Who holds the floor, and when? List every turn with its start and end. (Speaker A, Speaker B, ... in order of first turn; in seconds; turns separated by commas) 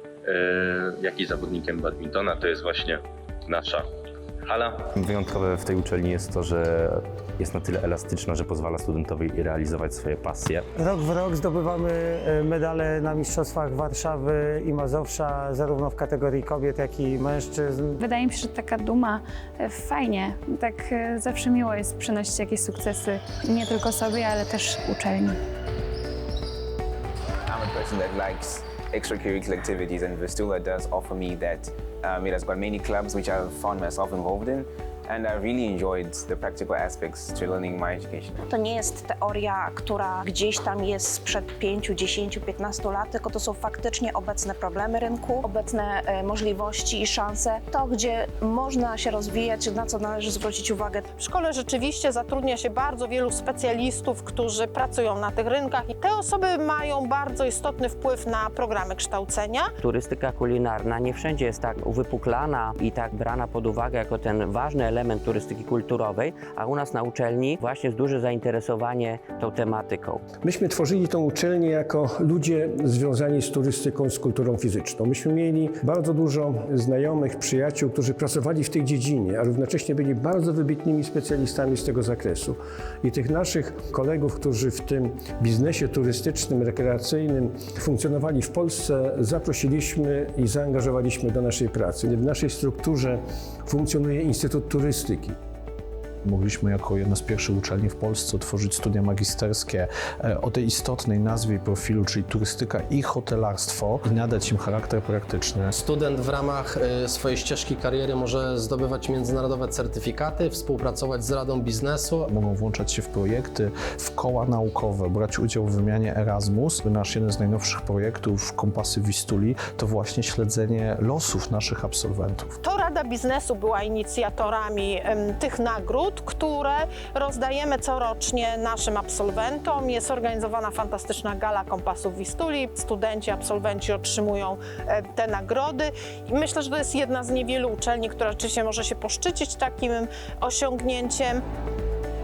Speaker A: 0.3-3.9, Speaker A: 4.5-4.9, Speaker B: 5.0-10.7, Speaker C: 10.8-18.0, Speaker D: 18.0-25.3, Speaker E: 27.5-38.4, Speaker F: 38.5-51.1, Speaker G: 51.2-59.7, Speaker H: 59.8-70.2, Speaker I: 70.4-95.3, Speaker J: 96.2-105.8, Speaker K: 105.8-112.3, Speaker J: 112.3-122.6, Speaker G: 122.6-141.4